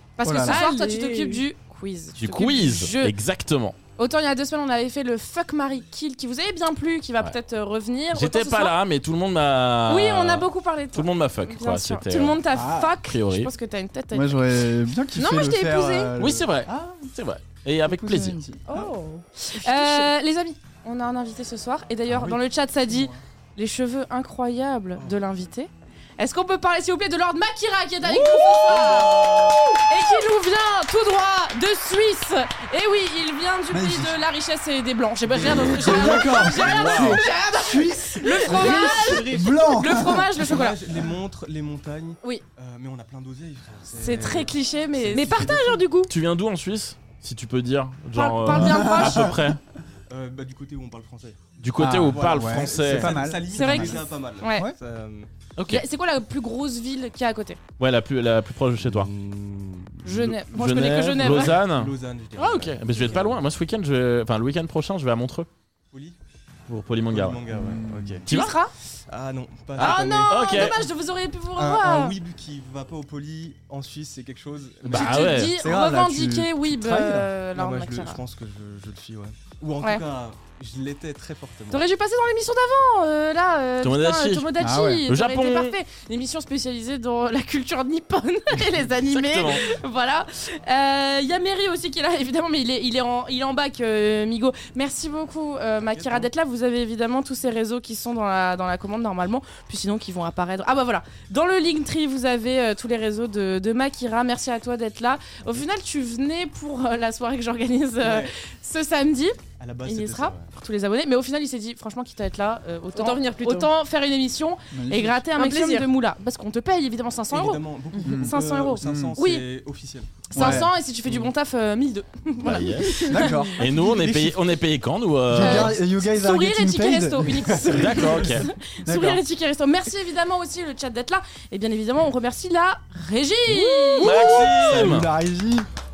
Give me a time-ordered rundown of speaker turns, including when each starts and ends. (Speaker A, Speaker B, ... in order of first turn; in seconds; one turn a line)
Speaker A: 0.2-3.1
Speaker B: 0.2-0.6
Speaker C: 0.4-1.4
Speaker D: 2.2-3.8
Speaker A: 4.0-8.8
Speaker D: 8.1-12.4
Speaker A: 9.9-14.4
Speaker B: 12.5-13.0
Speaker D: 13.0-13.5
Speaker B: 14.1-17.1
Speaker C: 15.2-16.1
Speaker D: 16.2-18.4
Speaker B: 17.8-18.7
Speaker A: 18.7-40.8
Speaker C: 18.7-20.1
Speaker E: 25.0-25.3
Speaker D: 28.4-29.4
Speaker E: 28.8-29.5
Speaker B: 33.7-34.2
Speaker D: 35.4-37.2
Speaker B: 35.4-40.5
Speaker E: 38.5-45.9
Speaker C: 38.5-39.1
Speaker A: 44.0-45.5
Speaker C: 45.1-46.1
Speaker D: 46.1-49.6
Speaker A: 48.1-49.3
Speaker B: 48.5-49.5
Speaker E: 50.1-51.4
Speaker D: 51.6-53.2
Speaker B: 51.8-54.0
Speaker E: 52.0-55.3
Speaker A: 53.5-54.7
Speaker D: 55.6-55.8
Speaker A: 55.7-57.6
Speaker D: 57.8-59.1
Speaker E: 58.8-60.4
Speaker A: 60.0-61.6
Speaker D: 60.5-65.5
Speaker E: 61.2-63.4
Speaker D: 66.7-67.4
Speaker E: 67.1-68.3
Speaker B: 67.5-68.2
Speaker D: 68.3-68.6
Speaker A: 68.3-68.7
Speaker E: 69.1-70.8
Speaker A: 69.8-72.2
Speaker D: 69.8-70.8
Speaker E: 71.5-75.5
Speaker D: 74.9-75.5
Speaker A: 74.9-78.2
Speaker B: 75.6-77.3
Speaker E: 77.5-81.9
Speaker A: 81.7-119.5
Speaker D: 83.8-84.5
Speaker B: 84.6-85.0
Speaker D: 85.1-85.8
Speaker D: 89.1-89.7
Speaker E: 95.9-96.3
Speaker E: 108.0-108.3
Speaker E: 109.6-110.5
Speaker C: 113.0-113.7
Speaker B: 114.7-115.2
Speaker C: 115.3-115.9
Speaker E: 117.3-120.6
Speaker B: 118.0-119.2
Speaker A: 120.3-123.3
Speaker B: 120.3-120.7
Speaker D: 122.4-125.8
Speaker B: 123.1-124.5
Speaker B: 125.3-128.1
Speaker A: 125.4-134.3
Speaker D: 127.7-128.5
Speaker B: 128.8-129.2
Speaker C: 133.5-134.4
Speaker D: 134.0-135.1
Speaker B: 134.0-135.7